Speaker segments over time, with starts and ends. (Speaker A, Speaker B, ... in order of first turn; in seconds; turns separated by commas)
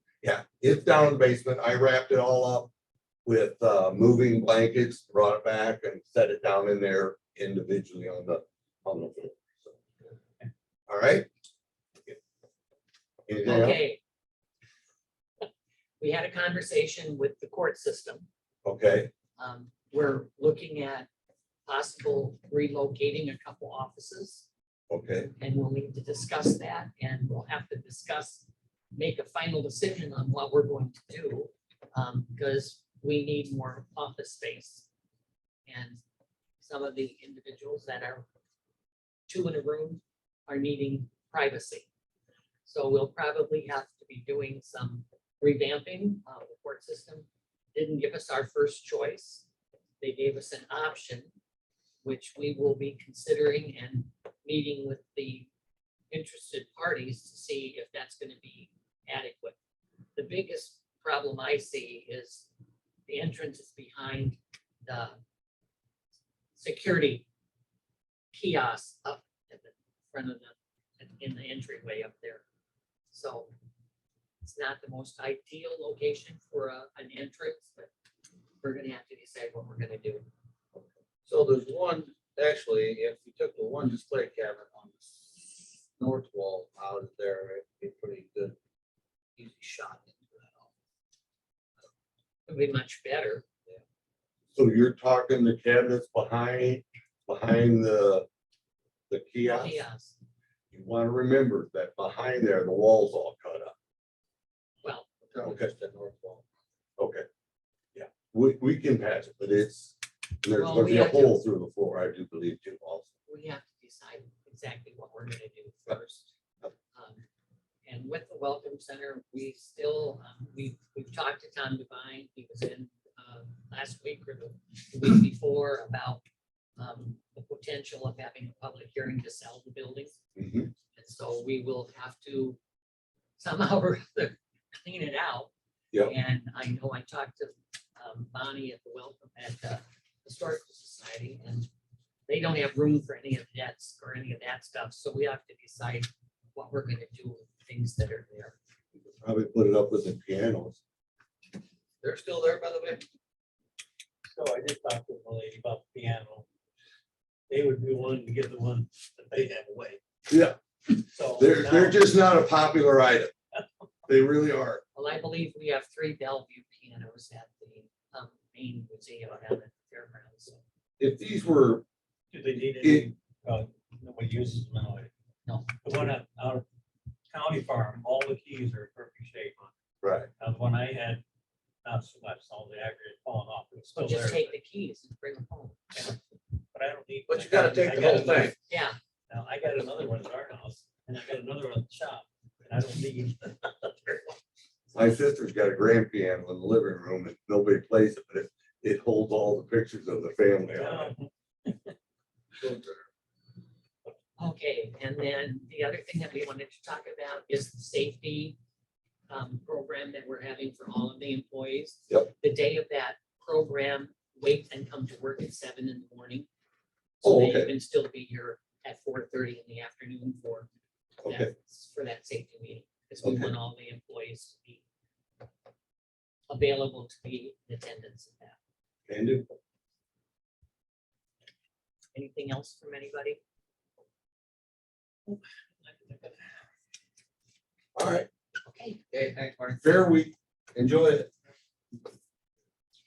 Speaker A: 0.2-2.7, Speaker A: 3.2-9.7, Speaker A: 10.9-11.3, Speaker A: 13.3-13.8, Speaker B: 13.4-14.0, Speaker B: 16.0-18.2, Speaker A: 18.6-19.1, Speaker B: 19.4-21.1, Speaker B: 21.6-24.5, Speaker A: 24.9-25.3, Speaker B: 25.3-34.9, Speaker B: 35.7-36.0, Speaker B: 36.6-38.2, Speaker B: 39.3-41.9, Speaker B: 42.6-49.5, Speaker B: 50.0-51.3, Speaker B: 52.0-55.5, Speaker B: 56.1-59.5, Speaker B: 60.1-62.5, Speaker B: 63.1-65.2, Speaker B: 66.5-67.3, Speaker B: 68.3-72.4, Speaker B: 73.1-73.5, Speaker B: 74.4-77.9, Speaker B: 78.6-80.3, Speaker C: 81.3-88.5, Speaker C: 89.4-90.7, Speaker B: 92.5-93.4, Speaker A: 94.5-98.2, Speaker A: 99.1-99.8, Speaker B: 99.5-100.2, Speaker A: 100.7-103.7, Speaker C: 105.3-106.4, Speaker A: 105.4-105.7, Speaker A: 107.0-107.2, Speaker A: 107.9-113.1, Speaker B: 110.5-111.4, Speaker B: 113.3-116.3, Speaker B: 116.9-117.2, Speaker B: 117.8-126.2, Speaker B: 126.8-130.2, Speaker A: 130.4-130.7, Speaker B: 130.9-132.6, Speaker B: 133.4-141.7, Speaker B: 142.3-148.6, Speaker A: 149.1-150.8, Speaker C: 152.0-153.0, Speaker D: 154.2-156.4, Speaker D: 157.5-160.0, Speaker A: 160.3-160.6, Speaker D: 161.1-162.1, Speaker A: 161.3-163.3, Speaker A: 164.1-164.8, Speaker B: 164.9-170.6, Speaker A: 171.0-171.8, Speaker D: 172.3-175.1, Speaker A: 172.8-173.1, Speaker B: 175.5-175.7, Speaker D: 175.8-176.6, Speaker D: 177.3-179.7, Speaker A: 180.0-180.3, Speaker D: 180.4-181.2, Speaker D: 181.8-184.5, Speaker B: 184.0-185.8, Speaker D: 185.9-186.2, Speaker D: 186.7-188.6, Speaker C: 187.3-188.5, Speaker B: 188.7-189.0, Speaker D: 189.3-194.4, Speaker A: 194.9-201.1, Speaker D: 200.7-201.9, Speaker C: 202.6-203.0, Speaker B: 204.4-208.6, Speaker B: 209.3-216.5, Speaker B: 217.2-220.7, Speaker A: 217.2-217.7, Speaker A: 221.2-221.5, Speaker B: 221.2-224.8, Speaker A: 223.2-223.5, Speaker B: 226.5-228.6, Speaker A: 229.1-229.5, Speaker B: 232.1-233.4, Speaker D: 235.3-236.5, Speaker A: 237.9-238.3, Speaker B: 238.7-239.0, Speaker C: 239.1-239.8, Speaker A: 239.8-241.3